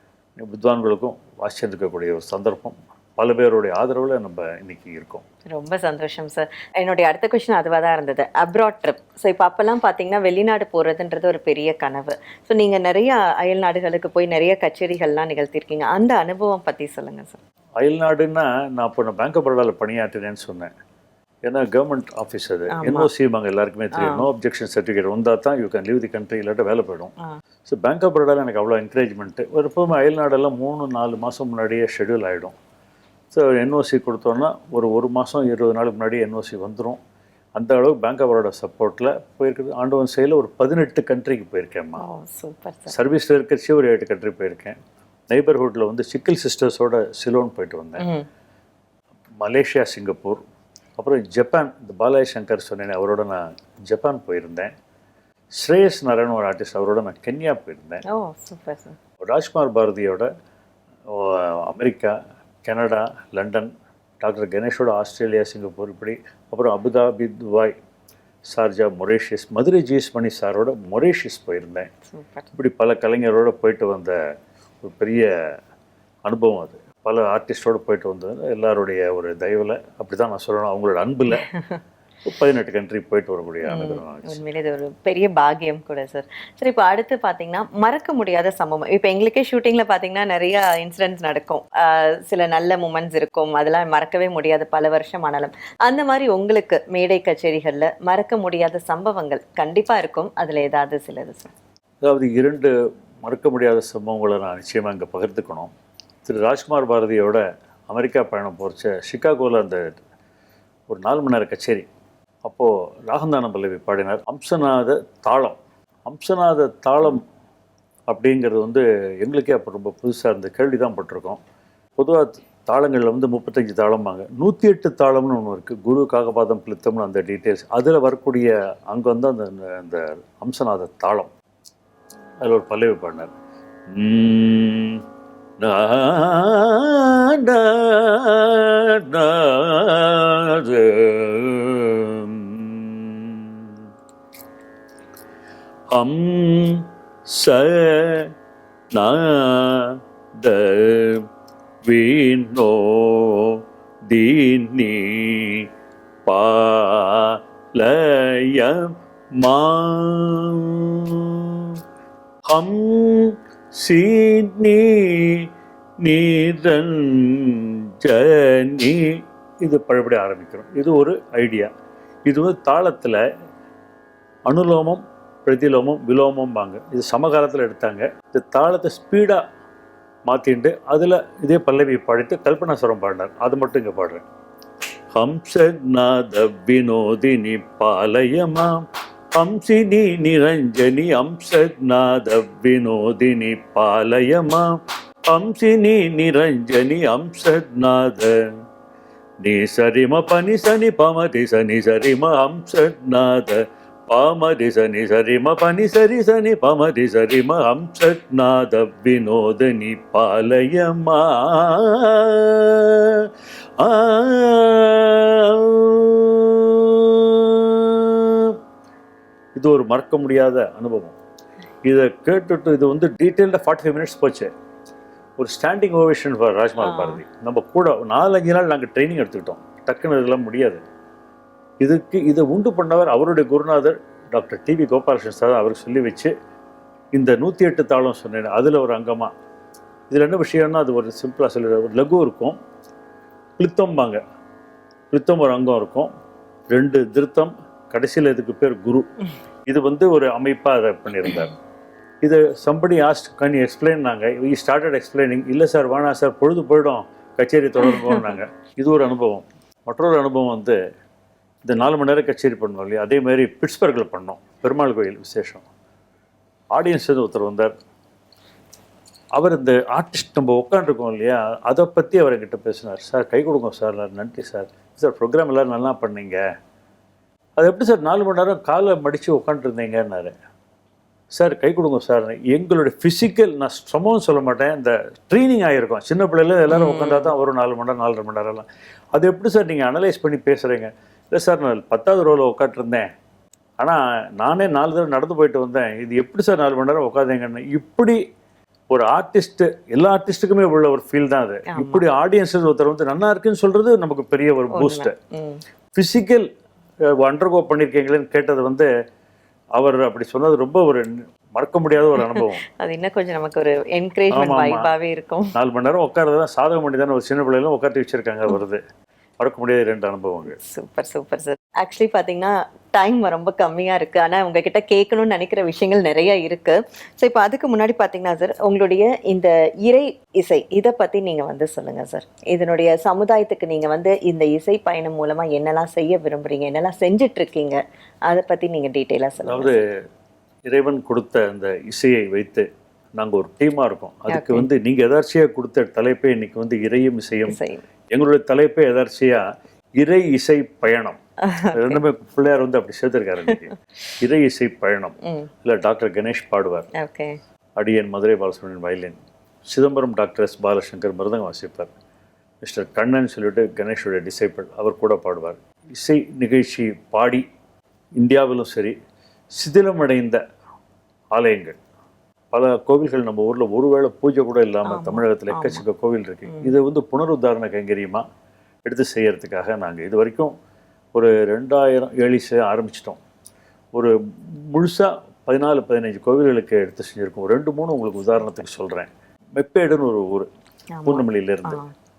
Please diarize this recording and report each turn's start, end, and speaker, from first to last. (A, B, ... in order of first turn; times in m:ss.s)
0:00.4-0:05.2 A
0:05.5-0:17.4 B
0:17.8-0:20.7 A
0:21.5-0:27.1 A
0:22.7-0:23.1 B
0:24.0-0:24.3 B
0:27.7-0:32.5 A
0:33.3-0:37.0 A
0:37.6-0:42.0 A
0:42.0-0:43.0 B
0:42.9-0:44.8 A
0:45.3-0:48.1 A
0:48.0-0:48.3 B
0:49.4-0:50.4 A
0:51.0-0:54.7 A
0:55.6-0:58.0 A
0:58.1-0:59.0 B
0:59.2-1:00.3 A
1:01.1-1:07.8 A
1:08.5-1:11.9 A
1:12.1-1:12.5 B
1:12.6-1:14.2 A
1:14.8-1:15.3 A
1:16.3-1:21.5 A
1:21.3-1:21.8 B
1:22.3-1:24.4 A
1:23.6-1:41.5 B
1:42.0-1:45.7 A
1:46.2-1:50.0 A
1:50.9-1:51.9 A
1:52.4-1:57.2 A
1:58.1-2:01.4 A
2:02.0-2:11.3 A
2:12.4-2:13.3 A
2:13.9-2:15.0 A
2:15.6-2:23.8 A
2:25.9-2:28.3 A
2:28.9-2:31.3 A
2:31.8-2:35.7 A
2:36.3-2:41.8 A
2:42.5-2:51.7 A
2:52.3-2:53.2 A
2:54.5-2:59.4 A
3:00.3-3:04.2 A
3:05.2-3:08.8 A
3:09.4-3:14.7 A
3:15.3-3:18.5 A
3:19.4-3:38.6 A
3:39.6-3:41.2 A
3:41.8-3:44.5 A
3:45.4-3:50.8 A
3:46.8-3:47.2 B
3:51.8-3:56.3 A
3:57.2-3:59.3 A
4:00.1-4:02.6 A
4:03.6-4:04.2 A
4:05.1-4:06.1 A
4:06.7-4:09.1 A
4:09.7-4:11.5 A
4:12.2-4:20.8 A
4:17.8-4:18.3 B
4:21.6-4:25.6 A
4:26.7-4:27.7 A
4:29.4-4:36.4 A
4:37.6-4:40.3 A
4:41.4-4:53.1 A
4:46.7-4:47.3 B
4:53.8-4:58.2 A
4:58.9-5:05.1 A
5:01.7-5:02.0 B
5:04.7-5:05.6 B
5:06.0-5:06.5 A
5:07.1-5:08.9 A
5:09.8-5:12.6 A
5:12.2-5:15.5 B
5:14.3-5:14.9 A
5:15.5-5:18.8 A
5:19.4-5:20.6 A
5:20.5-5:39.8 B
5:39.4-5:39.8 A
5:40.7-5:42.7 A
5:43.2-5:47.6 A
5:44.3-5:44.7 B
5:47.5-5:47.8 B
5:48.1-5:49.4 A
5:50.0-5:51.2 A
5:51.4-5:52.0 B
5:51.7-5:56.9 A
5:55.2-5:55.5 B
5:57.0-5:57.4 B
5:57.8-5:59.2 A
5:59.7-6:01.9 A
6:02.6-6:07.4 A
6:08.2-6:09.0 A
6:09.6-6:10.4 A
6:11.3-6:11.8 A
6:12.5-6:18.2 A
6:14.9-6:15.8 B
6:16.5-6:16.7 B
6:18.9-6:20.5 A
6:21.1-6:23.2 A
6:23.9-6:30.5 A
6:30.9-6:31.9 B
6:31.1-6:31.8 A